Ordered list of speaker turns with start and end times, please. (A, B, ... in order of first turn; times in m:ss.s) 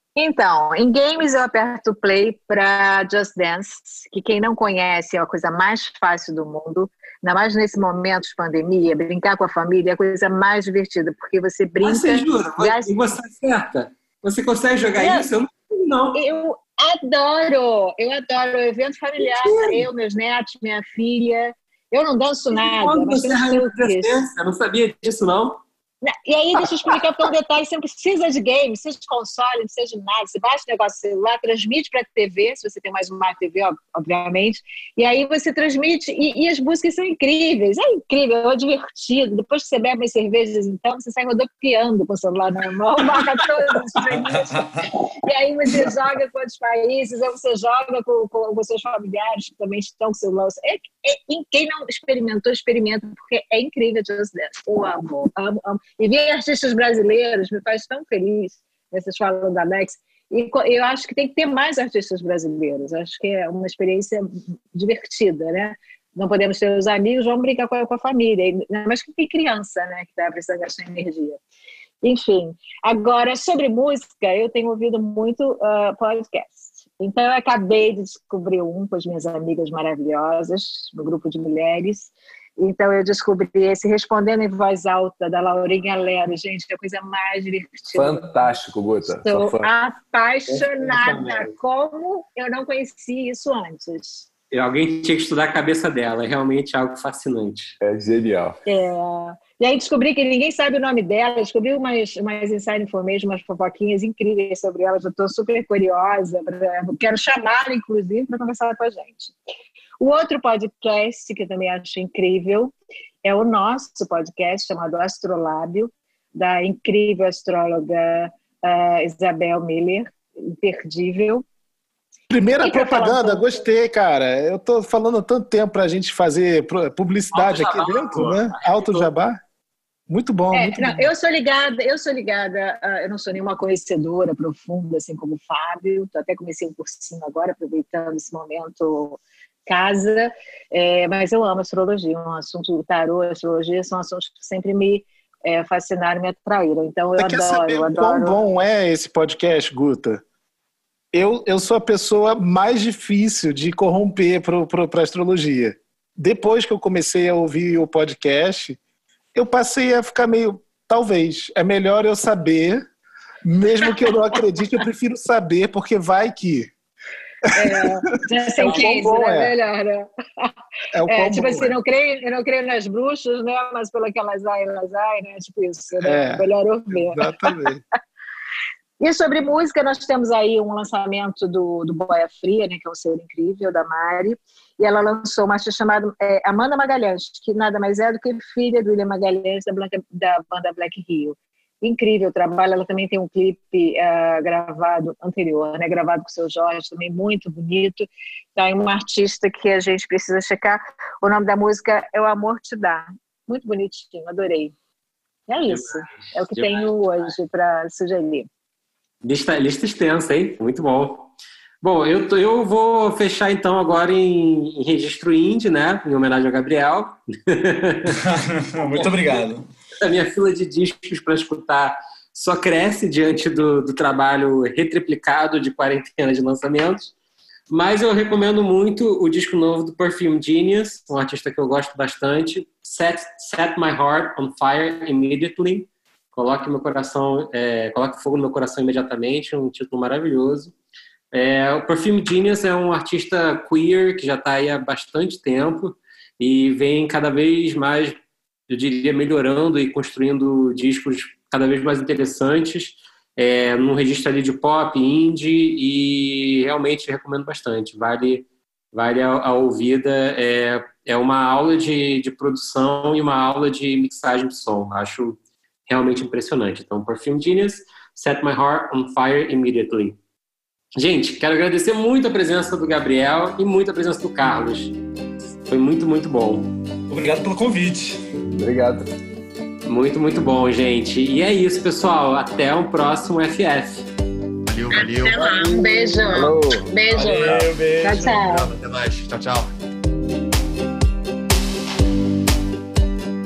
0:00.2-0:12.9 A
0:11.8-0:16.2 B
0:15.0-0:15.3 A
0:16.1-0:24.2 A
0:19.2-0:19.8 B
0:22.5-0:25.6 B
0:26.0-0:44.6 A
0:26.6-0:27.0 B
0:44.2-0:44.9 C
0:45.2-1:11.4 A
1:12.0-1:28.4 A
1:27.9-1:29.7 D
1:29.0-1:34.3 A
1:30.5-1:31.5 B
1:34.5-1:37.8 B
1:37.8-1:38.6 D
1:38.6-1:49.3 A
1:50.0-1:52.7 A
1:53.2-2:01.4 A
2:02.3-2:09.4 E
2:02.6-2:03.6 A
2:07.3-2:09.1 B
2:10.1-2:11.1 E
2:10.5-2:28.4 A
2:27.2-2:30.2 E
2:31.1-2:38.8 E
2:39.3-2:42.9 E
2:43.4-2:46.7 E
2:47.4-2:49.5 E
2:47.5-2:50.5 A
2:50.9-2:51.7 E
2:51.0-2:57.5 A
2:56.0-2:57.8 E
2:59.0-3:24.7 A
3:25.5-3:28.5 A
3:25.6-3:27.3 B
3:29.2-3:38.2 B
3:38.2-3:39.7 C
3:39.0-3:39.4 B
3:40.0-3:47.1 B
3:47.7-4:00.7 B
4:01.3-4:08.2 B
4:08.7-4:30.2 B
4:30.9-4:35.0 B
4:35.7-4:36.7 B
4:37.1-4:38.2 C
4:38.5-4:39.1 D
4:39.9-4:44.0 B
4:44.7-4:45.5 F
4:44.9-4:48.7 A
4:45.2-4:47.6 D
4:47.1-4:48.4 C
4:48.4-4:49.7 F